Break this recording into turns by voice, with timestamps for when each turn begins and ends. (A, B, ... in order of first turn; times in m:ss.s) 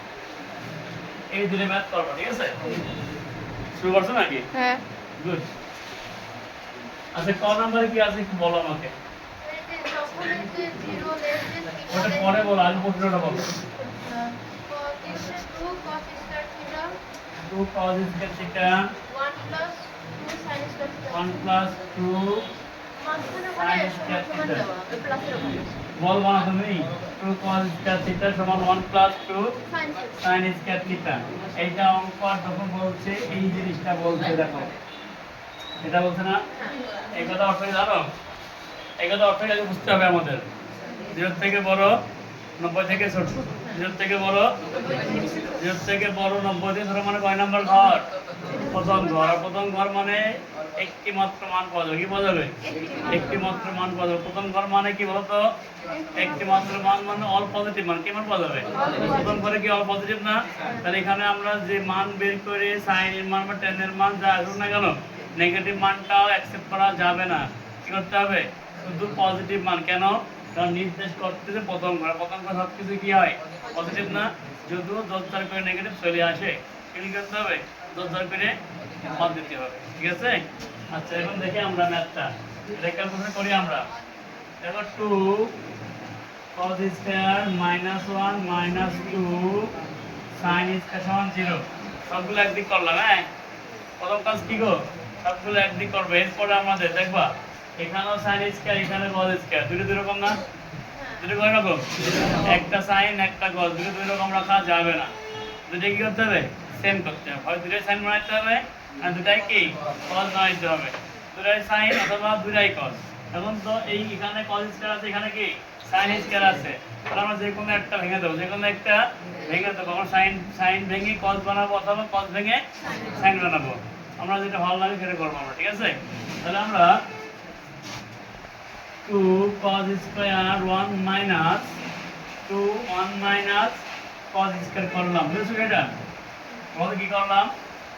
0:01.3-0:02.6 A
0:03.7-0:04.5 A
0:04.5-0:04.8 B
0:05.2-0:05.5 A
0:07.2-0:08.9 A
0:09.4-0:12.3 B
0:11.9-0:13.5 A
0:13.8-0:17.0 B
0:17.5-0:18.9 A
0:19.1-0:21.3 B
0:21.1-0:22.4 A
0:23.1-0:25.6 B
0:23.6-0:24.7 A
0:26.0-0:29.5 A
0:30.2-0:34.7 A
0:35.8-0:36.4 A
0:37.1-0:38.1 A
0:39.0-0:40.5 A
0:41.1-0:41.9 A
0:42.6-0:44.5 A
0:44.8-0:45.4 B
0:45.4-0:48.1 A
0:48.7-0:50.2 A
0:50.8-0:55.5 A
0:56.2-1:23.9 A
0:58.8-0:59.1 B
1:24.6-1:25.5 A
1:26.6-1:29.7 A
1:30.4-1:33.3 A
1:34.0-1:40.4 A
1:40.9-1:41.2 B
1:41.2-1:45.1 A
1:45.7-2:06.9 A
2:02.9-2:03.2 B
2:09.0-2:11.8 A
2:12.5-2:15.9 A
2:16.8-2:17.5 A